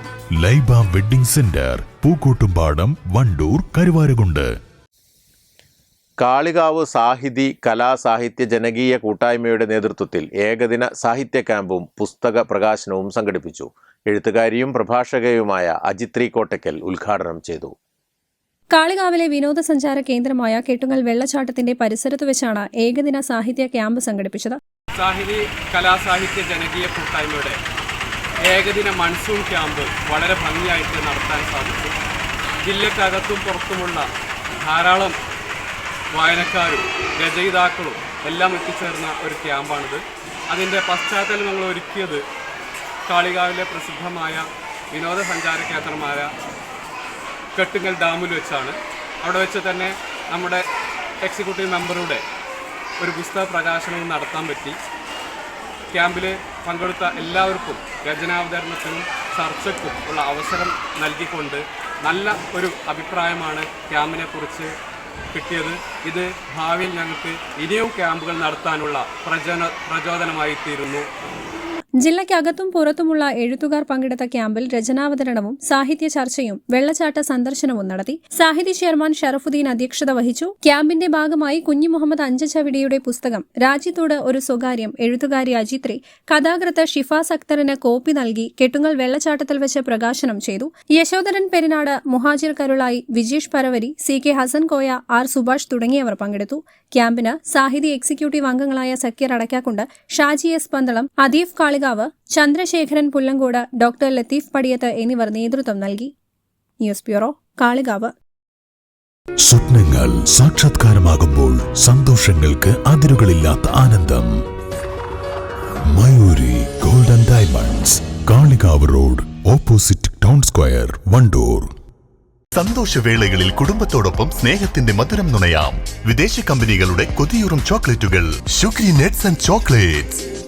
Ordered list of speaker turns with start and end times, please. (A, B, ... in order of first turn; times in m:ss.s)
0:00.4-0:04.5 A
0:06.2-0:17.8 B
0:18.7-0:24.6 C
0:25.0-0:27.6 D
0:28.5-0:32.0 D
0:32.6-0:34.1 D
0:34.6-0:35.2 D
0:36.1-0:42.2 D
0:43.1-0:46.3 D
0:47.6-0:50.6 D
0:51.2-0:52.2 D
0:53.0-0:54.8 D
0:55.9-1:04.7 D
1:05.3-1:11.1 D
1:12.0-1:46.1 C
1:46.8-1:48.2 C
1:49.4-1:54.3 A
1:55.9-2:01.7 A
2:02.5-2:10.2 E